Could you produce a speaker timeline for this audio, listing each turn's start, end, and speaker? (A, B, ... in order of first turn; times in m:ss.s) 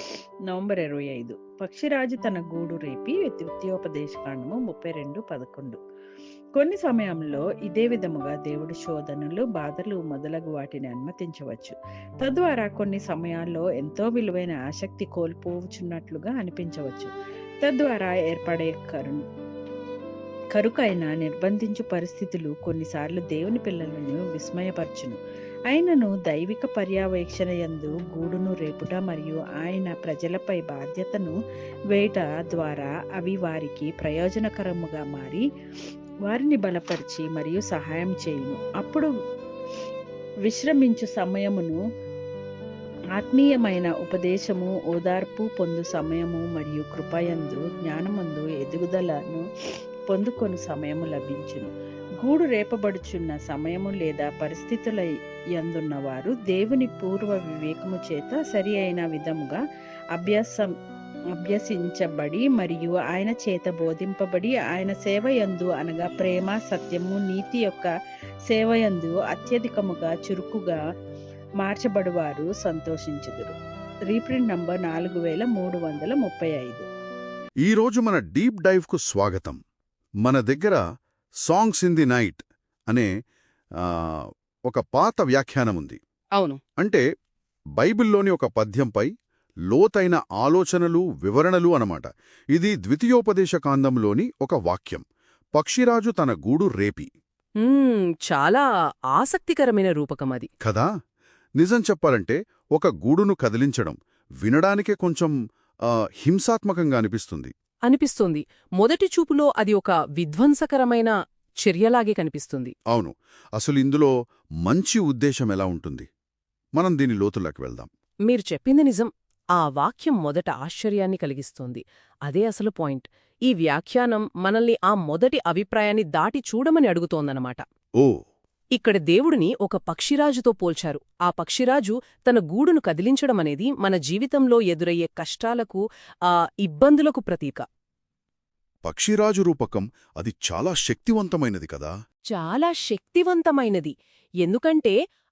0:00.5-0:05.8 A
0:06.6-0:17.1 A
0:17.6-0:19.2 A
0:20.5-0:25.2 A
0:25.7-0:31.3 A
0:31.9-0:35.4 A
0:36.3-0:39.1 A
0:40.5-0:41.8 A
0:43.1-0:49.4 A
0:50.1-0:59.6 A
1:00.1-1:00.7 A
1:01.4-1:07.9 A
1:08.5-1:10.8 A
1:11.6-1:13.5 A
1:14.1-1:16.8 A
1:17.6-1:19.6 B
1:20.2-1:20.8 B
1:21.4-1:23.1 B
1:23.8-1:26.0 B
1:27.8-1:29.1 B
1:29.7-1:35.0 B
1:35.5-1:37.1 B
1:37.6-1:40.5 C
1:40.6-1:40.9 B
1:41.6-1:45.3 B
1:45.9-1:47.5 B
1:47.8-1:52.7 C
1:52.9-1:54.1 B
1:54.6-1:56.1 B
1:56.8-1:57.9 B
1:58.2-2:07.6 C
2:08.7-2:17.6 C
2:18.8-2:21.9 B
2:22.3-2:24.9 C